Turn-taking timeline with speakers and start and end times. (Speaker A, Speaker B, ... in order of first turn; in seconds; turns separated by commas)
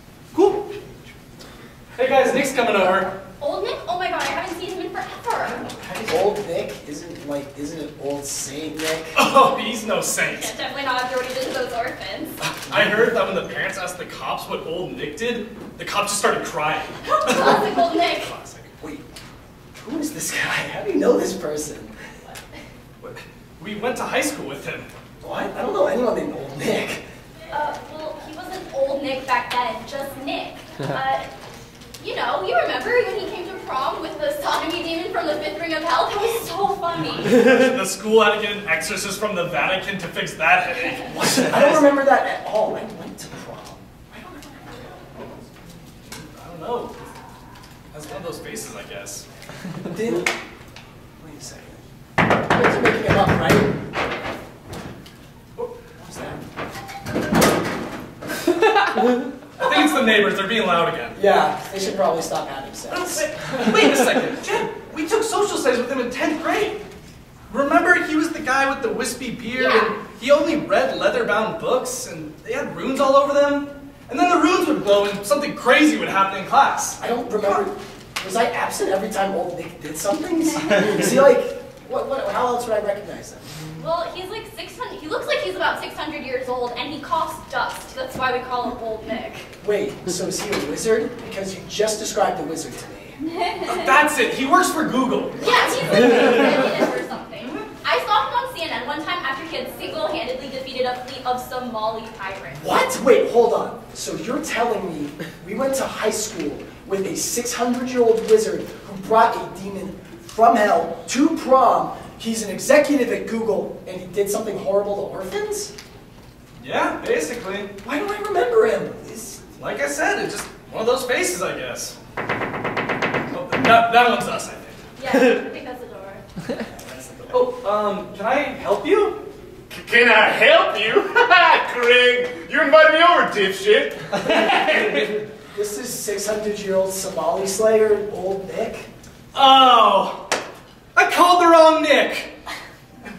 Speaker A: 0.3-0.7, Speaker A: 1.9-3.1, Speaker B: 3.4-5.6, Speaker A: 5.5-6.3, Speaker C: 6.0-9.2, Speaker A: 9.1-10.5, Speaker B: 10.2-12.4, Speaker A: 12.4-18.7, Speaker B: 17.0-18.3, Speaker C: 18.8-19.0, Speaker C: 19.7-21.9, Speaker A: 23.0-24.9, Speaker C: 25.2-27.0, Speaker B: 27.5-31.3, Speaker B: 32.0-37.4, Speaker A: 37.2-42.0, Speaker C: 41.1-45.0, Speaker A: 46.0-47.0, Speaker A: 47.9-49.2, Speaker C: 49.8-50.3, Speaker C: 51.2-51.8, Speaker C: 52.4-53.8, Speaker C: 56.0-56.4, Speaker A: 59.5-61.2, Speaker C: 61.1-63.9, Speaker A: 62.9-66.8, Speaker A: 67.5-77.6, Speaker B: 69.5-70.0, Speaker C: 77.0-83.5, Speaker B: 83.8-89.5, Speaker C: 89.6-93.2, Speaker B: 93.2-94.0, Speaker A: 93.6-96.7, Speaker B: 95.4-102.7, Speaker C: 95.4-96.5, Speaker C: 102.5-115.7, Speaker A: 116.6-117.7, Speaker C: 117.8-119.4, Speaker A: 119.5-122.0, Speaker A: 123.3-124.9, Speaker B: 125.0-126.2, Speaker C: 126.8-127.4, Speaker A: 127.3-129.2, Speaker D: 129.7-134.1, Speaker A: 134.2-135.1, Speaker C: 135.5-138.9, Speaker A: 139.3-140.3, Speaker A: 140.9-142.3